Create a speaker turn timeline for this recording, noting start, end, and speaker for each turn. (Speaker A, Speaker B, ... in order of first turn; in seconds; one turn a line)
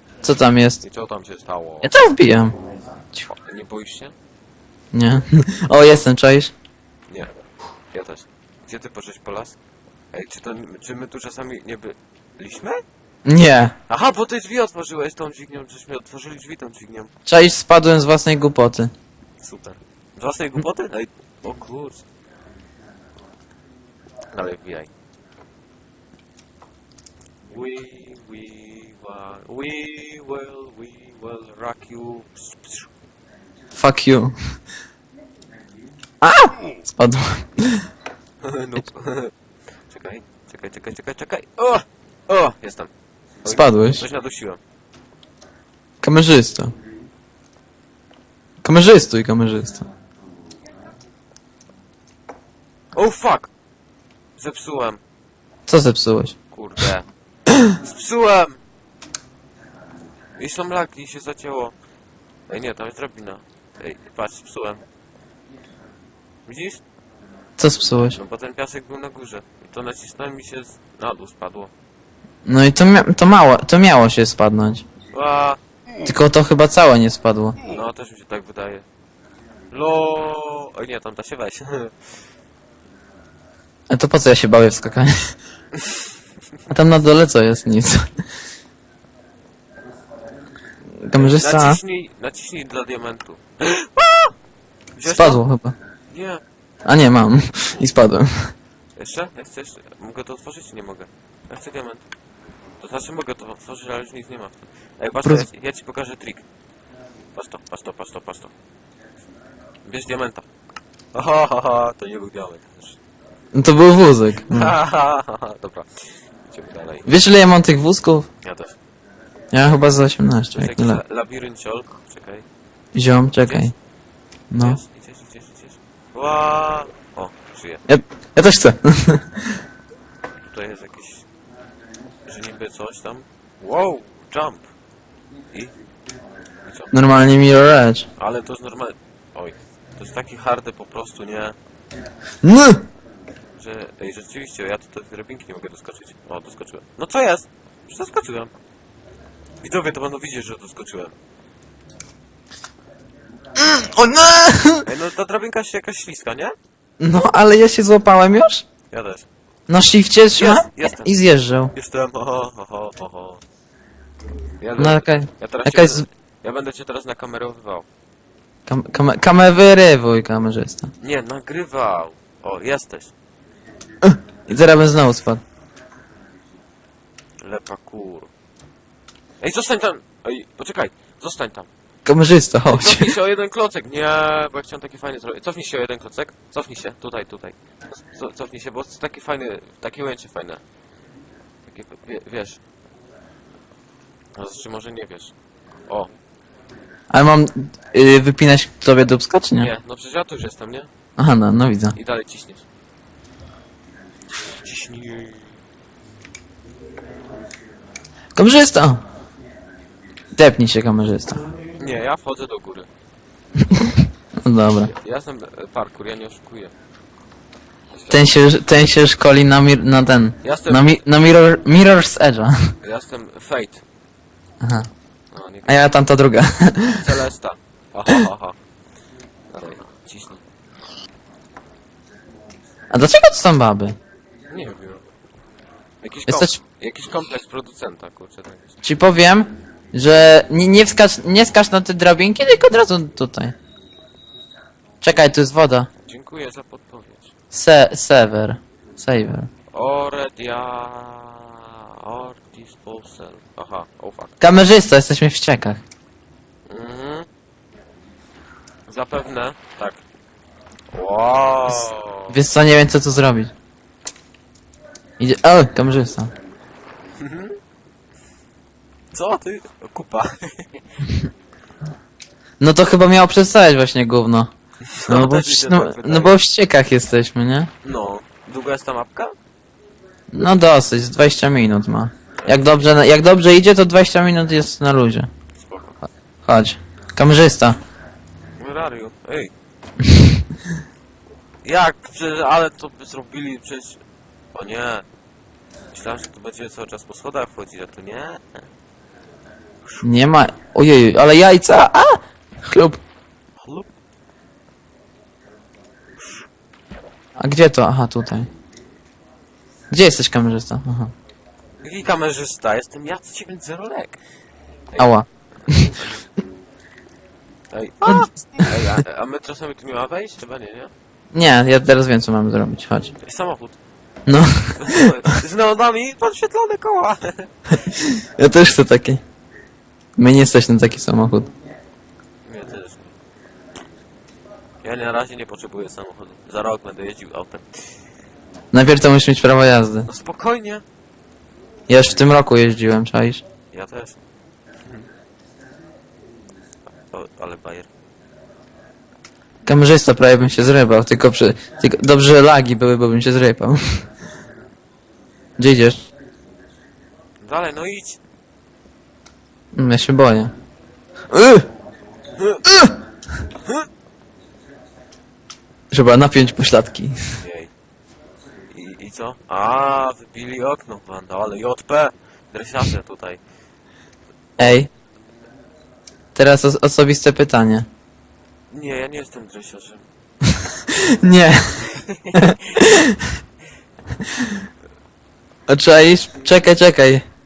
Speaker A: 0.2-0.8
Speaker B: 0.8-1.9
Speaker A: 1.8-2.6
Speaker B: 3.3-4.1
Speaker A: 4.9-6.5
Speaker B: 7.9-9.6
Speaker B: 10.1-12.8
Speaker A: 13.2-13.7
Speaker B: 13.9-17.1
Speaker A: 17.2-18.9
Speaker B: 19.4-22.0
Speaker B: 24.3-24.9
Speaker B: 27.5-32.9
Speaker A: 33.7-34.3
Speaker A: 36.2-37.9
Speaker B: 38.4-39.3
Speaker B: 39.9-42.9
Speaker B: 43.4-44.6
Speaker A: 43.5-44.0
Speaker A: 46.0-46.7
Speaker A: 48.6-49.9
Speaker B: 52.9-53.5
Speaker B: 54.4-55.0
Speaker A: 55.7-56.4
Speaker B: 56.5-57.1
Speaker B: 57.7-58.6
Speaker B: 60.4-61.7
Speaker B: 62.5-64.8
Speaker B: 66.5-66.8
Speaker A: 67.6-68.2
Speaker B: 68.1-71.7
Speaker A: 72.5-74.8
Speaker B: 75.1-75.6
Speaker A: 76.0-77.6
Speaker B: 77.7-78.8
Speaker B: 79.7-81.9
Speaker A: 83.9-85.3
Speaker B: 85.8-86.1
Speaker A: 86.7-88.1
Speaker A: 91.0-91.8
Speaker B: 91.1-94.3
Speaker B: 95.0-95.4
Speaker A: 95.0-95.7
Speaker B: 96.1-96.4
Speaker A: 96.8-98.5
Speaker B: 99.0-102.0
Speaker B: 102.8-106.4
Speaker B: 107.3-108.5
Speaker B: 109.8-110.5
Speaker B: 111.1-113.0
Speaker A: 113.5-114.7
Speaker B: 114.5-115.9
Speaker B: 116.5-117.1
Speaker A: 117.0-118.3
Speaker B: 118.4-118.8
Speaker A: 119.5-121.0
Speaker B: 120.5-122.4
Speaker A: 122.9-123.7
Speaker B: 123.4-123.7
Speaker A: 124.5-124.8
Speaker B: 124.6-127.8
Speaker A: 127.8-129.6
Speaker B: 130.4-131.2
Speaker B: 132.2-134.7
Speaker B: 136.6-136.9
Speaker A: 136.9-138.1
Speaker B: 138.2-141.6
Speaker A: 142.4-142.8
Speaker B: 143.5-148.5
Speaker B: 149.6-151.1
Speaker A: 153.6-154.9
Speaker B: 154.8-156.6
Speaker A: 157.0-158.6
Speaker B: 158.9-159.3
Speaker A: 159.7-161.7
Speaker B: 160.3-161.1
Speaker B: 161.7-163.4
Speaker B: 164.6-167.8
Speaker A: 164.8-166.0
Speaker A: 168.7-170.9
Speaker B: 171.0-173.1
Speaker A: 174.0-175.4
Speaker B: 177.4-178.3
Speaker B: 179.4-181.7
Speaker A: 182.0-183.1
Speaker B: 182.7-190.6
Speaker B: 191.7-192.6
Speaker B: 194.4-195.3
Speaker A: 197.1-199.7
Speaker B: 199.6-200.9
Speaker A: 201.2-201.9
Speaker B: 201.9-202.6
Speaker B: 204.5-205.5
Speaker A: 208.3-209.0
Speaker A: 210.3-211.5
Speaker B: 211.8-212.9
Speaker A: 213.6-214.9
Speaker B: 214.8-216.7
Speaker B: 217.9-218.3
Speaker A: 218.1-222.7
Speaker B: 220.4-221.0
Speaker B: 222.8-223.8
Speaker A: 224.6-224.9
Speaker B: 225.3-225.8
Speaker A: 225.7-227.1
Speaker B: 226.9-228.6
Speaker B: 229.5-230.4
Speaker A: 232.9-234.0
Speaker B: 234.5-235.0
Speaker B: 236.0-238.8
Speaker A: 236.3-236.6
Speaker A: 238.8-243.6
Speaker A: 245.0-245.9
Speaker B: 246.0-247.3
Speaker A: 247.5-249.5
Speaker B: 249.7-254.3
Speaker A: 254.4-255.8
Speaker B: 256.7-257.3
Speaker B: 258.9-260.0
Speaker B: 260.9-262.4
Speaker A: 261.7-263.5
Speaker A: 265.2-266.3
Speaker B: 267.2-267.6
Speaker B: 269.1-270.8
Speaker A: 272.6-274.5
Speaker B: 274.8-276.4
Speaker A: 275.1-277.7
Speaker B: 277.8-279.3
Speaker A: 280.3-285.3
Speaker B: 282.4-282.9
Speaker B: 285.6-286.0
Speaker A: 286.4-287.8
Speaker B: 288.6-289.5
Speaker A: 290.0-290.4
Speaker B: 291.6-294.0
Speaker B: 294.5-295.0
Speaker B: 295.9-298.6
Speaker A: 300.0-303.0
Speaker B: 303.6-303.9
Speaker A: 307.4-308.5
Speaker A: 309.9-311.1
Speaker B: 311.8-314.2
Speaker B: 314.9-316.2
Speaker A: 315.0-315.9
Speaker B: 317.7-320.9
Speaker A: 318.0-319.0
Speaker A: 321.3-323.1
Speaker B: 323.2-323.8
Speaker A: 324.2-325.1
Speaker B: 324.7-327.5
Speaker A: 327.9-329.2
Speaker A: 330.2-331.5
Speaker B: 332.4-333.1
Speaker B: 334.8-337.6
Speaker A: 338.7-340.1
Speaker B: 340.1-340.8
Speaker A: 341.9-343.4
Speaker B: 343.7-344.2
Speaker B: 347.1-347.9
Speaker A: 349.6-354.0
Speaker A: 355.6-356.1
Speaker B: 357.4-358.2
Speaker A: 359.7-360.5
Speaker A: 361.3-361.7
Speaker B: 362.4-362.6
Speaker A: 362.6-362.9
Speaker A: 365.9-367.2
Speaker B: 367.4-367.7
Speaker B: 368.7-373.4
Speaker B: 374.6-374.8
Speaker A: 374.6-374.9
Speaker A: 376.3-377.9
Speaker B: 378.7-380.0
Speaker A: 380.5-383.3
Speaker B: 381.9-382.4
Speaker A: 384.2-384.6
Speaker A: 385.7-387.2